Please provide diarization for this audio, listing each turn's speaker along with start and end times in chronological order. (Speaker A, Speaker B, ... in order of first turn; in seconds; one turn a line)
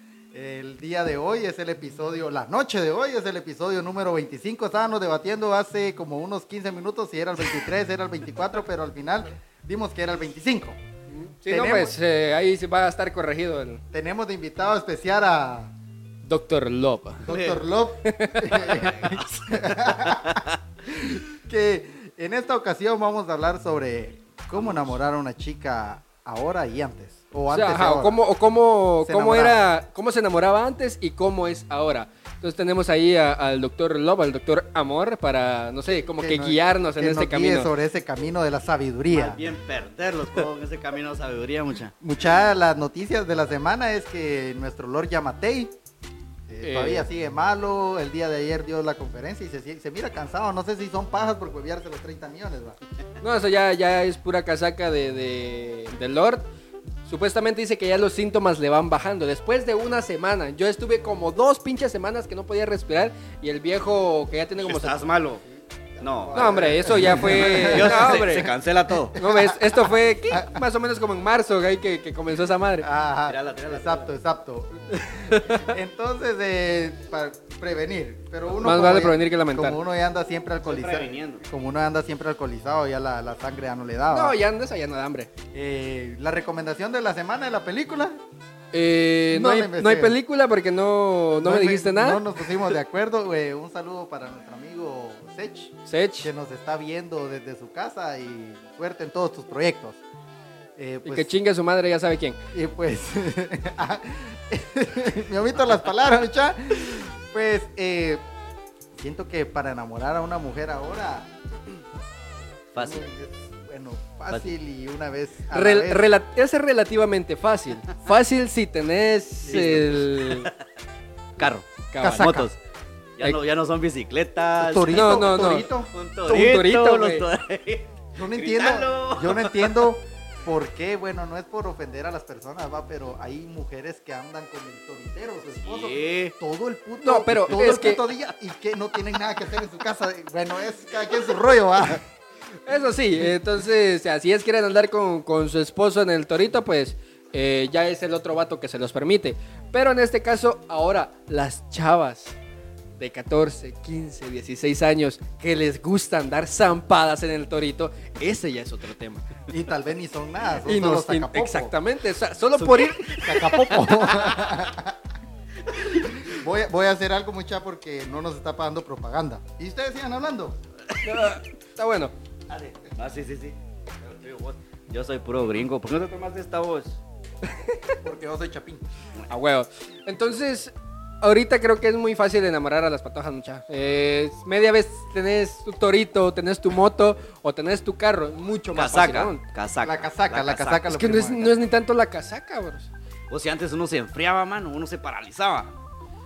Speaker A: 0.3-10.8
Speaker B: 11.1-13.8
Speaker A: 11.5-11.9
Speaker A: 13.9-15.7
Speaker B: 16.2-17.2
Speaker A: 17.2-28.1
Speaker C: 17.3-17.6
Speaker B: 18.1-18.6
Speaker C: 18.5-20.6
Speaker C: 24.6-25.0
Speaker B: 27.5-37.7
Speaker A: 29.0-29.6
Speaker A: 36.0-39.4
Speaker C: 39.1-41.9
Speaker A: 42.0-45.7
Speaker A: 46.5-52.8
Speaker B: 46.6-47.1
Speaker B: 53.2-56.5
Speaker B: 57.0-65.0
Speaker C: 64.6-65.4
Speaker A: 66.0-68.2
Speaker C: 66.0-69.2
Speaker B: 66.3-68.5
Speaker A: 69.1-70.5
Speaker B: 69.2-72.9
Speaker A: 72.8-84.3
Speaker C: 73.3-74.1
Speaker B: 75.3-75.6
Speaker B: 78.6-79.8
Speaker C: 80.7-81.4
Speaker B: 84.1-85.3
Speaker A: 85.5-88.2
Speaker B: 88.7-92.2
Speaker A: 89.3-90.2
Speaker A: 91.4-100.0
Speaker B: 95.9-96.3
Speaker A: 100.8-101.3
Speaker B: 101.0-102.4
Speaker A: 102.5-108.2
Speaker A: 109.0-111.3
Speaker C: 112.7-113.0
Speaker A: 112.8-116.1
Speaker B: 115.5-120.5
Speaker C: 119.5-120.6
Speaker C: 121.4-122.6
Speaker B: 121.9-122.5
Speaker A: 122.0-122.5
Speaker C: 123.2-125.1
Speaker A: 124.6-125.9
Speaker B: 124.9-125.7
Speaker C: 125.9-129.9
Speaker B: 126.3-127.3
Speaker A: 128.2-142.0
Speaker C: 135.6-136.3
Speaker B: 137.0-138.0
Speaker B: 142.7-152.4
Speaker B: 153.0-159.4
Speaker A: 159.5-161.7
Speaker B: 160.6-163.9
Speaker C: 162.6-163.1
Speaker A: 163.1-165.0
Speaker A: 166.0-170.6
Speaker B: 171.0-172.1
Speaker C: 172.5-177.0
Speaker B: 177.4-178.0
Speaker A: 178.0-178.8
Speaker B: 179.3-189.4
Speaker C: 188.7-190.9
Speaker A: 189.8-191.6
Speaker B: 190.8-192.9
Speaker C: 193.3-195.7